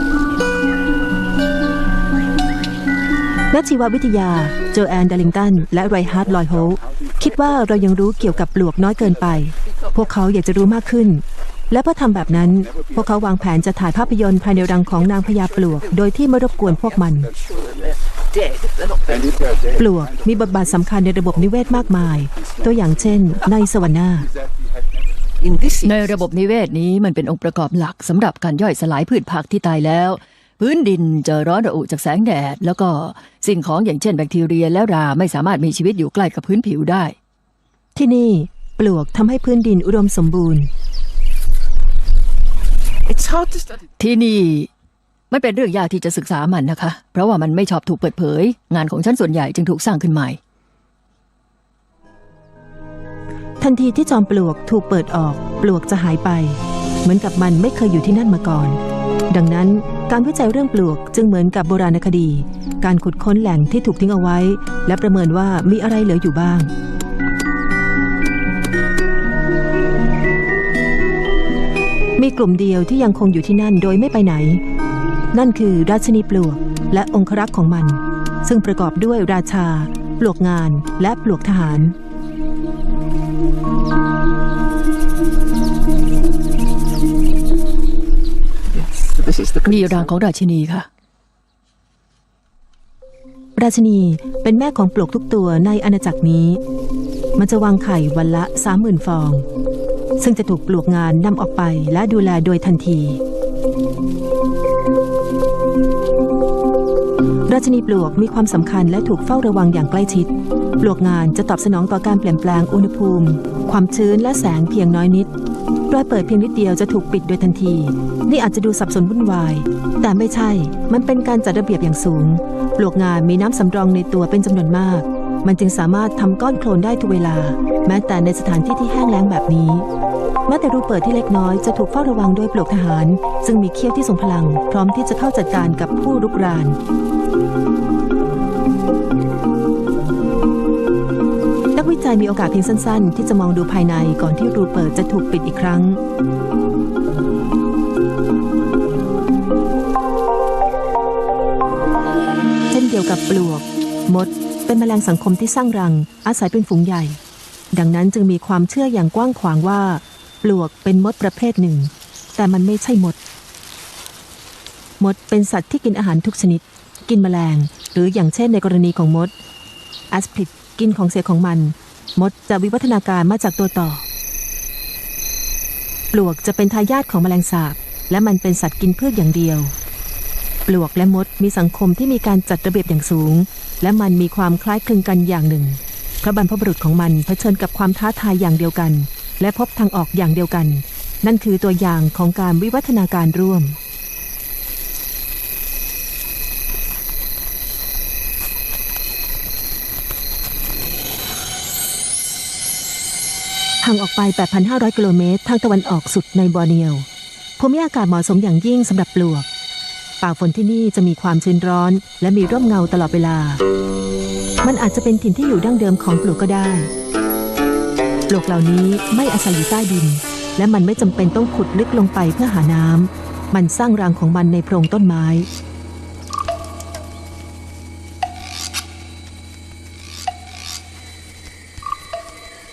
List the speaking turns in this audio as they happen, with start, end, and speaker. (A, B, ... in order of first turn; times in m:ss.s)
0:03.5-0:17.3 A
0:05.0-0:08.4 B
0:09.0-0:09.4 B
0:09.6-0:10.1 C
0:12.2-0:14.2 B
0:15.3-0:16.0 C
0:16.5-0:17.9 B
0:16.8-0:19.4 C
0:19.1-0:23.6 B
0:19.8-0:24.3 A
0:24.2-0:24.9 B
0:25.4-0:26.2 C
0:25.8-0:37.1 D
0:38.0-0:40.7 A
0:43.0-0:43.9 C
0:44.0-0:44.7 D
0:45.3-0:50.4 D
0:53.6-0:58.8 A
0:59.3-1:06.7 A
1:12.2-1:14.6 A
1:15.3-1:22.0 A
1:28.7-1:30.1 C
1:29.6-1:30.9 D
1:33.6-1:36.6 A
1:37.4-1:39.5 A
1:40.2-1:43.2 A
1:47.5-1:55.3 A
1:55.9-2:09.9 A
2:10.5-2:16.8 A
2:21.8-2:26.0 A
2:32.7-2:37.2 A
2:37.7-2:43.2 A
2:45.0-2:49.3 A
2:50.1-2:54.0 A
2:56.1-2:59.7 A
3:00.7-3:13.8 A
3:23.8-3:27.1 A
3:27.6-3:29.5 A
3:30.2-3:33.6 A
3:34.6-3:36.9 A
3:38.3-3:45.5 A